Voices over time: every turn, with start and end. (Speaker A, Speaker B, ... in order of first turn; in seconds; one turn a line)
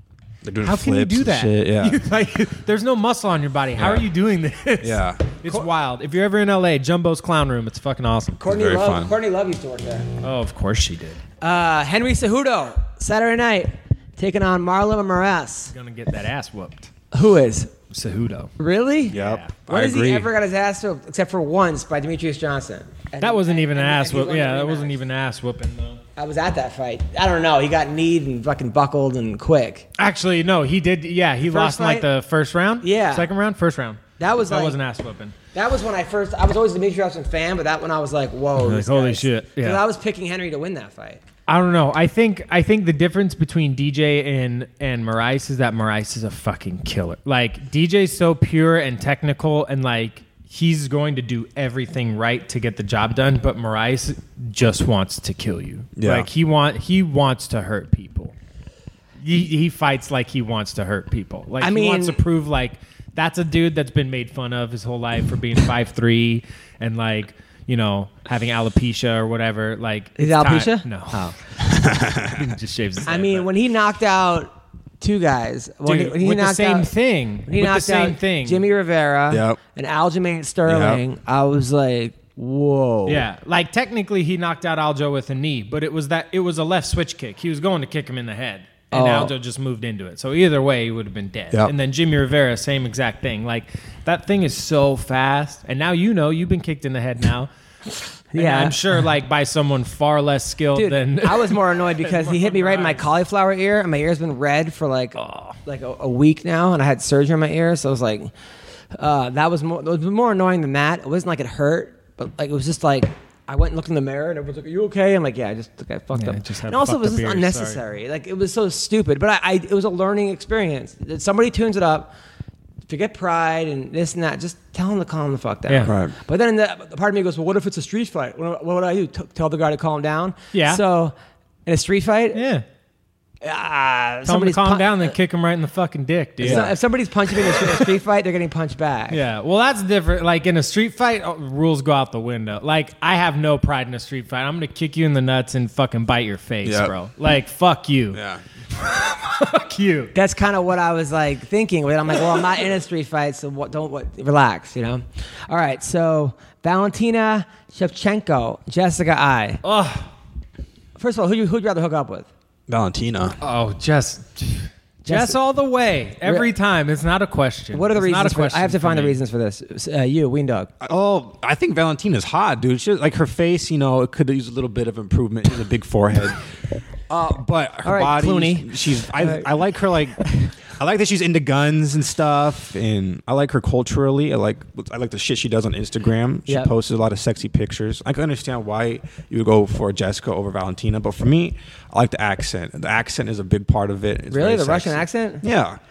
Speaker A: 0.4-2.0
Speaker B: 0.6-8.4
Speaker A: 3.8-4.1
Speaker A: 4.8-5.3
Speaker C: 8.4-10.1
Speaker A: 8.4-9.1
Speaker B: 10.2-11.2
Speaker C: 11.4-15.7
Speaker B: 15.7-16.9
Speaker C: 17.1-17.7
Speaker B: 17.9-18.5
Speaker C: 18.6-19.2
Speaker B: 19.1-19.6
Speaker A: 19.1-20.3
Speaker C: 19.7-25.0
Speaker B: 23.2-26.0
Speaker C: 26.2-29.9
Speaker B: 30.0-35.4
Speaker C: 31.4-32.1
Speaker C: 32.8-33.3
Speaker C: 34.2-34.8
Speaker C: 35.5-41.2
Speaker B: 38.6-39.8
Speaker B: 41.5-58.3
Speaker A: 56.0-56.3
Speaker B: 59.2-73.5
Speaker C: 61.6-62.2
Speaker C: 70.2-71.3
Speaker A: 71.6-72.5
Speaker C: 73.1-76.9
Speaker B: 75.8-78.7
Speaker C: 77.5-83.2
Speaker A: 79.3-79.6
Speaker A: 80.7-81.0
Speaker B: 83.1-97.5
Speaker C: 88.9-89.3
Speaker C: 98.3-98.8
Speaker B: 98.3-103.1
Speaker C: 100.8-108.3
Speaker B: 105.2-105.5
Speaker C: 109.0-122.1
Speaker B: 116.1-117.8
Speaker C: 122.9-131.1
Speaker B: 125.7-126.0
Speaker A: 125.9-126.1
Speaker B: 130.5-130.8
Speaker C: 131.7-132.4
Speaker B: 132.3-132.7
Speaker C: 133.4-135.1
Speaker B: 134.3-136.7
Speaker A: 136.4-136.7
Speaker C: 136.4-139.2
Speaker B: 139.1-148.2
Speaker A: 146.6-146.9
Speaker A: 148.1-148.4
Speaker B: 148.8-150.1
Speaker C: 150.1-159.6
Speaker B: 159.6-160.1
Speaker C: 161.0-162.3
Speaker A: 162.7-163.4
Speaker B: 163.4-169.2
Speaker C: 165.1-165.4
Speaker C: 166.2-166.5
Speaker C: 167.7-170.7
Speaker A: 170.8-176.4
Speaker A: 177.1-195.8
Speaker C: 177.8-179.5
Speaker C: 194.3-195.4